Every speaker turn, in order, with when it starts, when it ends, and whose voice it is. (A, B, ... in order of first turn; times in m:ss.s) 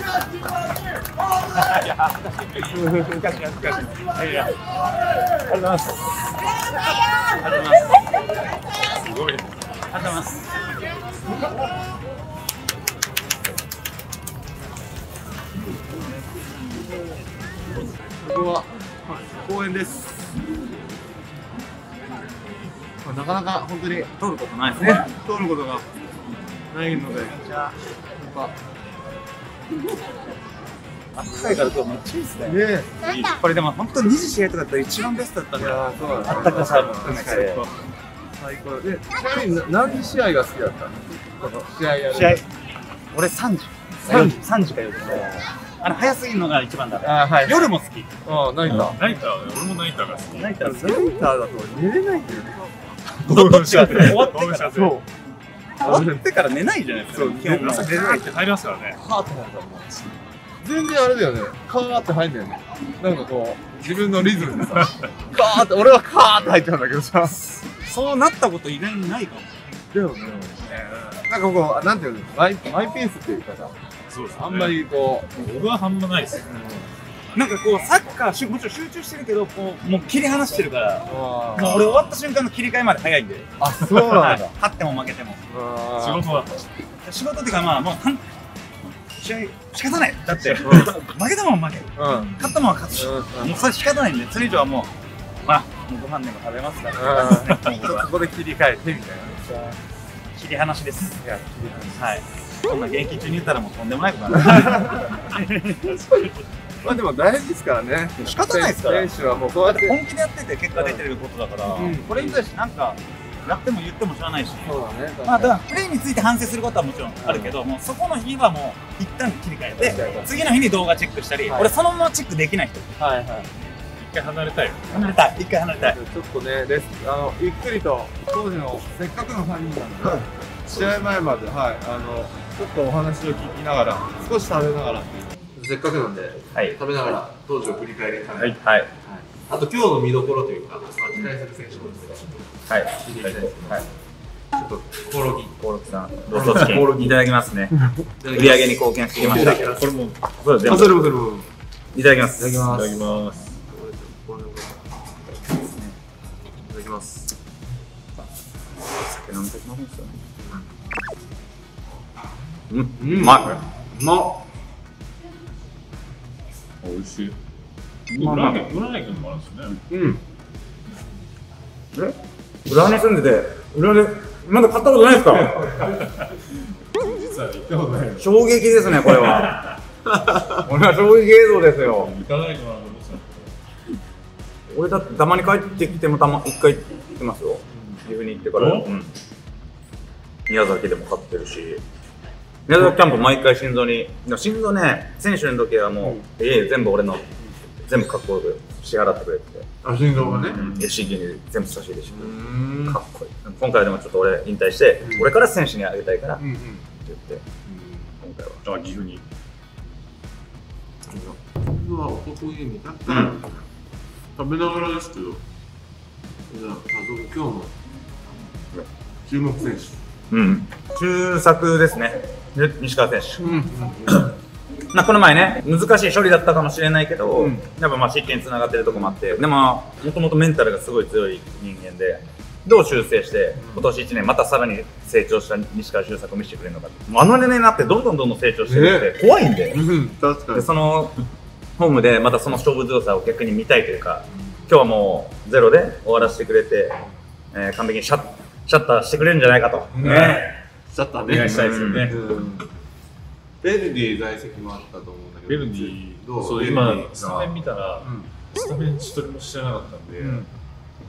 0:01.3-0:04.6 A
0:02.7-0:03.2 B
0:05.3-0:06.2 A
0:07.2-0:08.1 A
0:08.9-0:10.6 A
0:18.2-0:20.3 B
0:23.0-0:24.1 B
0:24.2-0:25.1 A
0:24.8-0:25.8 B
0:26.3-0:26.6 A
0:26.7-0:27.4 B
0:27.1-0:27.8 A
0:28.2-0:28.6 B
0:31.1-0:37.7 A
0:32.4-0:33.0 B
0:35.6-0:37.6 B
0:37.2-0:37.8 C
0:38.3-0:42.4 B
0:42.1-0:42.4 A
0:43.1-0:49.0 A
0:44.0-0:44.4 B
0:45.0-0:45.4 B
0:47.0-0:47.7 B
0:48.2-0:49.0 B
0:48.7-0:50.6 C
0:50.3-0:51.1 A
0:50.6-0:53.3 B
0:53.2-0:54.9 A
0:53.2-0:55.0 C
0:53.9-0:55.0 B
0:55.8-0:58.2 A
0:55.8-0:56.2 B
0:57.1-0:58.3 B
0:57.5-0:59.0 C
0:58.9-1:07.4 B
1:07.5-1:09.7 A
1:09.9-1:13.7 B
1:14.1-1:16.5 C
1:14.3-1:15.3 B
1:16.5-1:16.9 B
1:17.3-1:25.4 A
1:21.1-1:22.0 B
1:23.6-1:24.5 B
1:25.5-1:26.4 B
1:26.0-1:26.6 C
1:27.0-1:34.9 A
1:30.6-1:31.0 B
1:32.0-1:32.4 B
1:32.9-1:33.6 B
1:35.4-1:38.1 A
1:36.9-1:39.7 B
1:40.3-1:41.2 A
1:41.2-1:42.1 B
1:42.0-1:46.3 A
1:44.4-1:45.2 B
1:46.1-1:50.0 B
1:48.2-1:49.1 A
1:49.6-2:02.9 A
1:50.7-1:51.0 B
1:51.7-1:52.4 B
1:54.6-1:55.6 B
1:57.2-1:57.6 B
1:59.8-2:00.4 B
2:01.4-2:01.7 B
2:03.0-2:03.5 B
2:04.0-2:04.8 C
2:04.9-2:06.0 A
2:05.8-2:23.9 B
2:10.7-2:11.0 C
2:18.6-2:18.9 A
2:22.7-2:23.8 A
2:24.5-2:25.6 B
2:25.6-2:29.8 A
2:26.3-2:27.2 B
2:28.1-2:29.8 B
2:29.2-2:30.2 C
2:30.4-2:31.1 A
2:30.6-2:31.5 B
2:31.9-2:32.5 A
2:32.4-2:33.0 B
2:32.7-2:33.5 C
2:33.7-2:34.8 B
2:35.6-2:36.0 A
2:36.6-2:37.3 B
2:38.8-2:40.2 A
2:40.4-2:40.7 B
2:42.7-2:43.6 A
2:43.0-2:44.4 B
2:43.2-2:43.6 C
2:46.8-2:47.4 C
2:48.1-2:48.7 A
2:48.1-2:49.8 C
2:49.9-2:50.2 B
2:51.9-2:56.0 A
2:55.8-2:56.3 C
2:57.0-2:57.6 C
2:57.3-2:58.4 B
2:58.2-2:59.7 A
2:59.1-2:59.8 C
3:00.1-3:00.6 B
3:00.6-3:02.1 A
3:01.8-3:03.5 C
3:04.7-3:09.1 A
3:07.7-3:08.0 B
3:08.5-3:08.9 C
3:10.5-3:11.8 A
3:12.7-3:19.7 A
3:19.8-3:20.6 B
3:20.3-3:20.9 C
3:20.4-3:26.4 A
3:22.1-3:23.0 B
3:25.0-3:25.3 B
3:26.4-3:26.9 B
3:27.0-3:27.4 A
3:27.6-3:28.2 B
3:28.2-3:28.6 A
3:28.6-3:29.2 C
3:31.1-3:33.7 B
3:34.4-3:35.4 B
3:36.5-3:37.8 B
3:39.2-3:40.0 B
3:40.3-3:43.5 A
3:43.4-3:44.3 B
3:44.9-3:59.8 A
3:47.3-3:47.6 B
3:53.6-3:53.9 B
3:58.6-3:59.2 B
3:59.7-4:00.7 B
4:00.5-4:01.2 A
4:01.8-4:10.5 A
4:04.4-4:04.6 B
4:09.9-4:12.7 B
4:10.0-4:10.5 C
4:11.2-4:12.4 C
4:11.3-4:12.1 A
4:13.6-4:18.3 B
4:15.5-4:20.5 C
4:20.2-4:20.5 B